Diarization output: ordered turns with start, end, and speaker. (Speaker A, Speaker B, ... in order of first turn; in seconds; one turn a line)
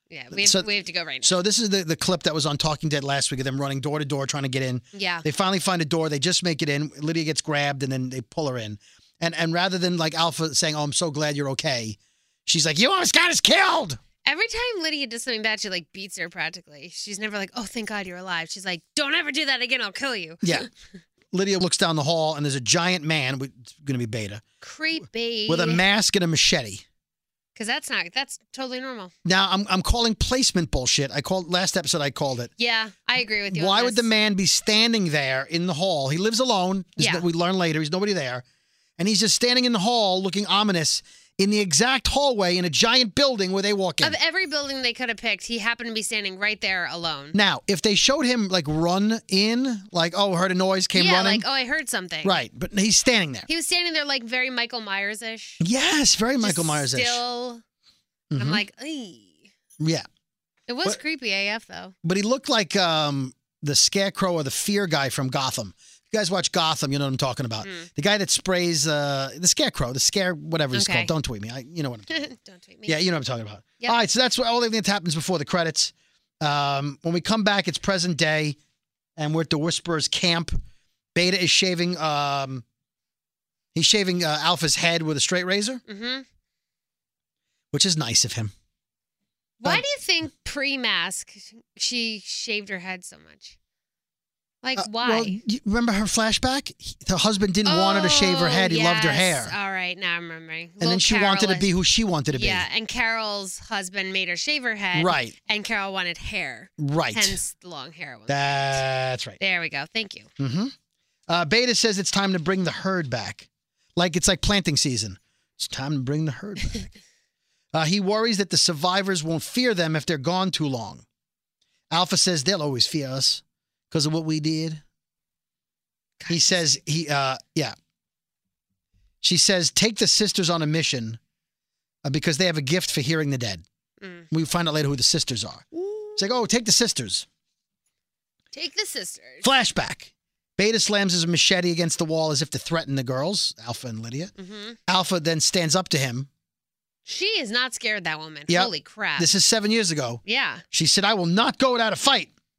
Speaker A: 0.1-1.4
Speaker B: 0.3-0.7
Speaker B: 1.2-14.0
Speaker A: 4.9-5.2
Speaker A: 14.2-20.7
Speaker B: 21.3-24.4
Speaker A: 24.6-25.8
Speaker B: 25.5-26.8
Speaker A: 27.6-29.1
Speaker B: 29.2-32.5
Speaker A: 32.6-34.1
Speaker B: 33.5-38.4
Speaker A: 37.0-37.2
Speaker B: 39.0-44.1
Speaker A: 44.0-47.4
Speaker B: 47.3-51.4
Speaker A: 50.9-52.4
Speaker B: 52.2-53.5
Speaker A: 53.5-55.6
Speaker B: 55.6-57.2
Speaker A: 56.4-57.6
Speaker B: 58.3-58.6
Speaker A: 58.4-59.5
Speaker B: 59.8-60.1
Speaker A: 60.7-61.9
Speaker B: 62.0-72.3
Speaker A: 67.6-67.9
Speaker A: 70.7-71.1
Speaker A: 72.1-73.0
Speaker B: 72.8-78.6
Speaker B: 79.2-80.6
Speaker B: 81.1-82.6
Speaker B: 83.7-85.8
Speaker A: 85.9-86.2
Speaker B: 87.7-88.5
Speaker A: 89.6-93.6
Speaker A: 94.6-95.4
Speaker B: 94.8-99.5
Speaker A: 97.7-101.7
Speaker B: 100.8-102.7
Speaker A: 102.3-108.8
Speaker B: 104.9-105.3
Speaker B: 106.8-107.4
Speaker B: 108.3-109.4
Speaker A: 109.4-110.3
Speaker B: 110.4-110.7
Speaker B: 111.3-116.9
Speaker B: 117.7-121.0
Speaker B: 121.9-124.8
Speaker A: 126.2-126.6
Speaker B: 126.3-127.8
Speaker B: 129.2-131.2
Speaker B: 132.0-133.6
Speaker A: 134.0-134.2
Speaker B: 134.3-137.2
Speaker A: 135.8-136.2
Speaker A: 138.5-139.5
Speaker B: 139.4-144.3
Speaker A: 144.4-144.8
Speaker B: 144.9-146.3
Speaker A: 147.1-149.3
Speaker B: 148.5-152.3
Speaker A: 150.2-150.6